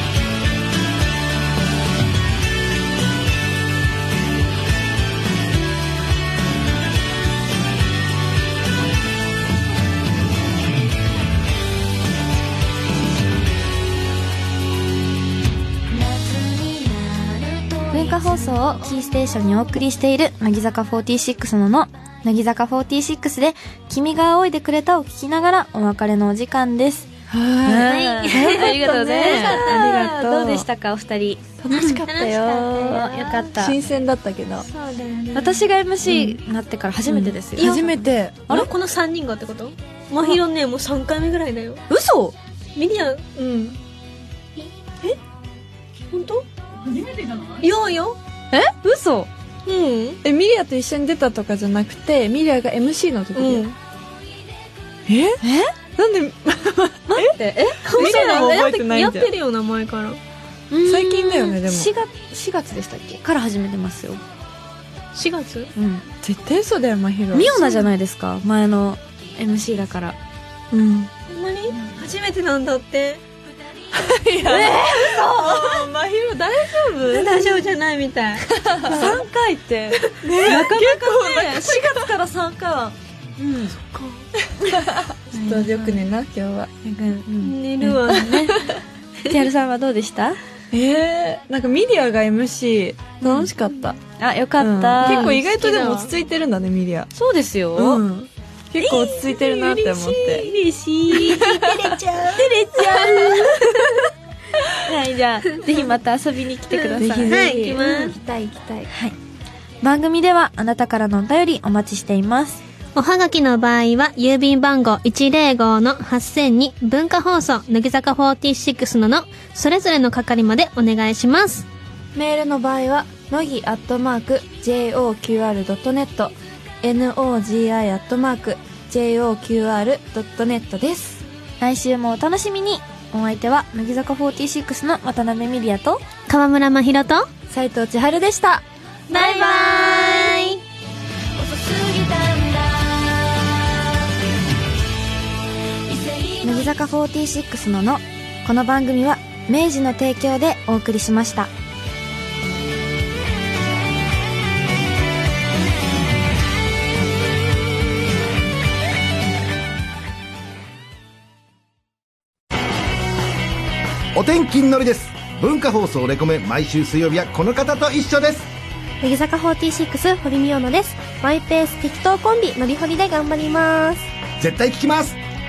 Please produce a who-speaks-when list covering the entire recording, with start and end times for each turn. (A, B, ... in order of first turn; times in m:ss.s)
0:17.9-0:27.1 A
0:27.3-0:30.7 B
0:27.6-0:33.8 A
0:27.8-0:28.8 C
0:29.3-0:29.5 C
0:31.6-0:32.6 B
0:31.7-0:33.5 C
0:33.5-0:34.7 B
0:34.6-0:35.7 C
0:35.3-0:38.7 A
0:36.1-0:36.4 B
0:37.0-0:38.6 B
0:37.6-0:41.8 C
0:41.9-0:42.3 A
0:42.7-0:43.8 C
0:46.1-0:48.2 C
0:48.5-0:49.3 A
0:49.6-0:50.2 C
0:50.2-0:53.6 B
0:53.3-0:53.8 C
0:55.1-0:59.3 B
0:55.4-0:55.7 A
0:57.1-0:58.5 A
0:57.9-1:00.2 C
1:00.7-1:04.2 A
1:00.8-1:01.9 B
1:05.1-1:05.7 C
1:05.7-1:06.0 A
1:06.2-1:07.6 B
1:07.3-1:10.2 A
1:07.5-1:07.8 C
1:10.7-1:11.1 B
1:11.2-1:13.2 C
1:13.9-1:17.6 B
1:14.4-1:15.9 C
1:17.0-1:19.2 C
1:18.5-1:19.2 B
1:18.8-1:23.8 A
1:20.0-1:22.1 B
1:23.8-1:24.2 C
1:24.6-1:26.7 B
1:24.6-1:26.0 A
1:26.8-1:28.6 A
1:27.4-1:28.5 C
1:28.1-1:28.8 B
1:29.2-1:30.4 A
1:30.7-1:34.0 B
1:33.2-1:33.5 A
1:34.2-1:35.4 A
1:34.6-1:37.1 B
1:35.0-1:36.1 C
1:37.1-1:38.0 A
1:37.7-1:40.5 B
1:38.8-1:43.6 C
1:41.0-1:41.4 A
1:41.4-1:41.8 B
1:42.4-1:43.5 A
1:42.7-1:43.8 B
1:44.7-1:47.9 A
1:46.8-1:48.2 C
1:47.0-1:48.9 B
1:48.9-1:49.1 A
1:49.8-1:52.6 A
1:53.0-2:01.6 C
2:02.1-2:11.2 B
2:11.6-2:16.0 A
2:16.3-2:17.3 C
2:17.5-2:18.6 B
2:19.1-2:20.6 C
2:19.1-2:20.2 A
2:21.5-2:23.0 A
2:26.4-2:31.5 A
2:44.1-2:48.5 D
2:49.0-2:54.1 E
2:54.4-2:55.2 D